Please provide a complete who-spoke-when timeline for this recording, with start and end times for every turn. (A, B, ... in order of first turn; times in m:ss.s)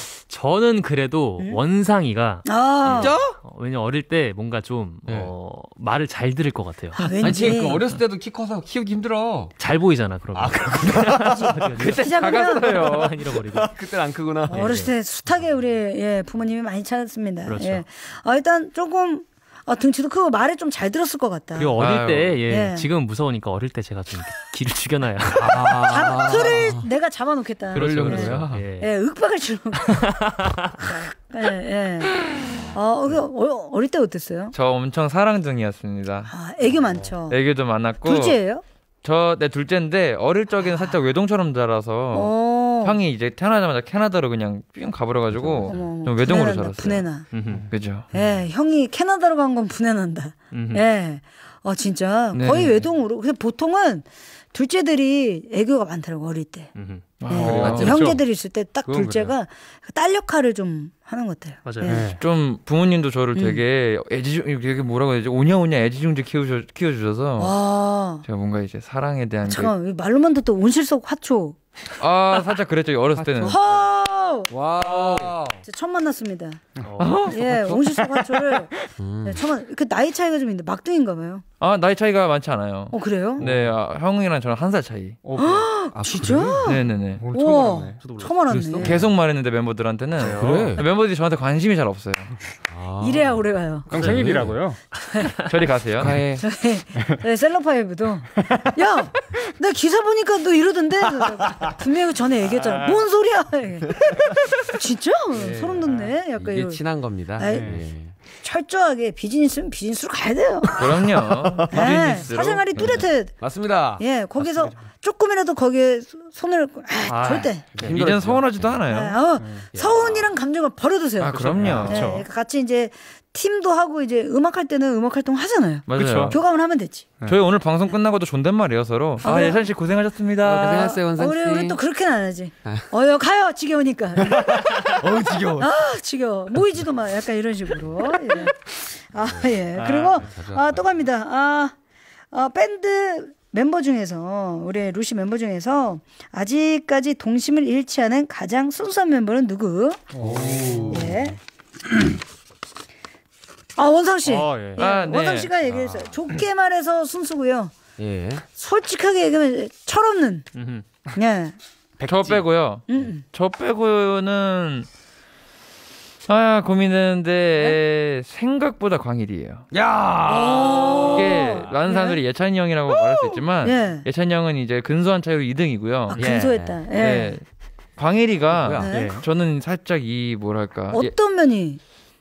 0:00.3-0:07.1 A
0:02.4-0:03.2 B
0:02.9-0:03.4 C
0:05.1-0:05.3 C
0:07.0-0:07.8 B
0:07.2-0:09.5 C
0:09.6-0:13.7 A
0:10.3-0:12.0 C
0:11.4-0:12.8 B
0:11.8-0:13.2 D
0:12.7-0:14.8 C
0:14.5-0:21.7 B
0:14.5-0:14.9 A
0:17.4-0:17.8 A
0:21.6-0:25.7 A
0:21.8-0:22.4 D
0:22.5-0:22.9 B
0:25.3-0:26.9 C
0:25.8-0:30.1 B
0:27.7-0:28.9 A
0:27.7-0:28.6 C
0:29.8-0:30.8 A
0:30.8-0:34.5 B
0:34.5-0:36.3 D
0:36.3-0:37.4 B
0:37.3-0:38.4 D
0:38.0-0:38.6 B
0:39.0-0:48.1 D
0:42.1-0:43.0 B
0:45.3-0:45.8 C
0:45.7-0:47.2 B
0:47.3-0:47.7 A
0:47.5-0:48.4 E
0:48.1-0:56.7 B
0:50.5-0:50.8 A
0:52.3-0:52.8 D
0:56.7-0:57.0 A
0:57.2-0:58.1 D
0:57.3-1:02.1 B
0:57.3-0:58.2 E
0:57.5-0:58.1 C
0:58.8-0:59.3 E
1:01.6-1:02.0 A
1:01.8-1:02.2 E
1:02.2-1:07.6 D
1:03.3-1:03.6 B
1:07.4-1:08.2 B
1:08.2-1:09.7 D
1:09.4-1:11.6 B
1:12.0-1:13.6 D
1:13.1-1:13.6 C
1:13.4-1:14.5 B
1:14.5-1:15.6 C
1:14.8-1:15.4 E
1:15.6-1:16.6 B
1:16.8-1:17.1 E
1:16.8-1:17.3 A
1:17.0-1:17.4 D
1:17.2-1:21.4 B
1:17.3-1:18.0 C
1:18.0-1:18.6 E
1:19.0-1:19.5 C
1:21.6-1:25.2 D
1:22.9-1:23.4 B
1:23.4-1:23.7 E
1:25.2-1:25.7 E
1:25.4-1:26.8 B
1:25.9-1:26.7 C
1:26.6-1:27.2 D
1:27.1-1:29.1 E
1:27.3-1:29.0 B
1:28.0-1:28.3 A
1:28.6-1:32.4 D
1:30.2-1:30.8 E
1:30.2-1:30.8 C
1:32.7-1:34.5 C
1:33.0-1:33.9 B
1:33.9-1:34.8 E
1:34.1-1:34.3 D
1:35.0-1:35.3 B
1:35.4-1:36.2 D
1:36.0-1:36.4 C
1:36.4-1:46.8 B
1:42.5-1:43.0 E
1:45.3-1:48.1 C
1:47.4-1:47.7 B
1:47.4-1:47.8 E
1:48.3-1:50.9 B
1:50.8-1:53.0 D
1:51.7-1:53.3 B
1:53.3-1:54.0 C
1:54.0-1:57.6 B
1:54.4-1:54.8 E
1:57.1-1:58.0 E
1:57.1-1:57.5 A
1:57.8-1:58.8 C
1:57.8-1:59.2 D
1:58.9-2:07.1 B
2:01.2-2:02.1 D
2:01.3-2:02.2 E
2:05.9-2:06.4 D
2:06.0-2:06.3 E
2:07.2-2:10.9 D
2:09.2-2:09.7 B
2:10.4-2:11.8 C
2:10.6-2:15.0 B
2:14.3-2:15.8 C
2:15.6-2:21.7 B
2:19.1-2:19.6 C
2:19.8-2:20.3 E
2:20.1-2:21.0 C
2:22.3-2:30.1 B
2:30.1-2:31.2 E
2:30.2-2:31.3 C
2:30.8-2:31.4 B
2:33.8-2:37.7 B
2:34.2-2:34.8 E
2:34.8-2:35.5 D
2:35.7-2:36.1 C
2:38.0-2:38.4 C
2:38.5-2:40.4 B
2:40.5-2:40.8 A
2:41.2-2:41.6 B
2:42.0-2:42.4 E
2:42.0-2:44.9 D
2:42.9-2:43.2 B
2:46.3-2:49.7 D
2:49.7-2:51.7 C
2:50.3-2:52.2 B
2:51.1-2:57.4 D
2:52.9-2:53.4 C
2:53.6-2:54.1 B
2:56.1-2:57.4 B
2:56.1-2:57.4 C
2:58.0-3:01.1 D
2:58.5-2:58.9 C
2:58.8-2:59.2 B
2:58.9-2:59.2 E
3:00.9-3:01.8 B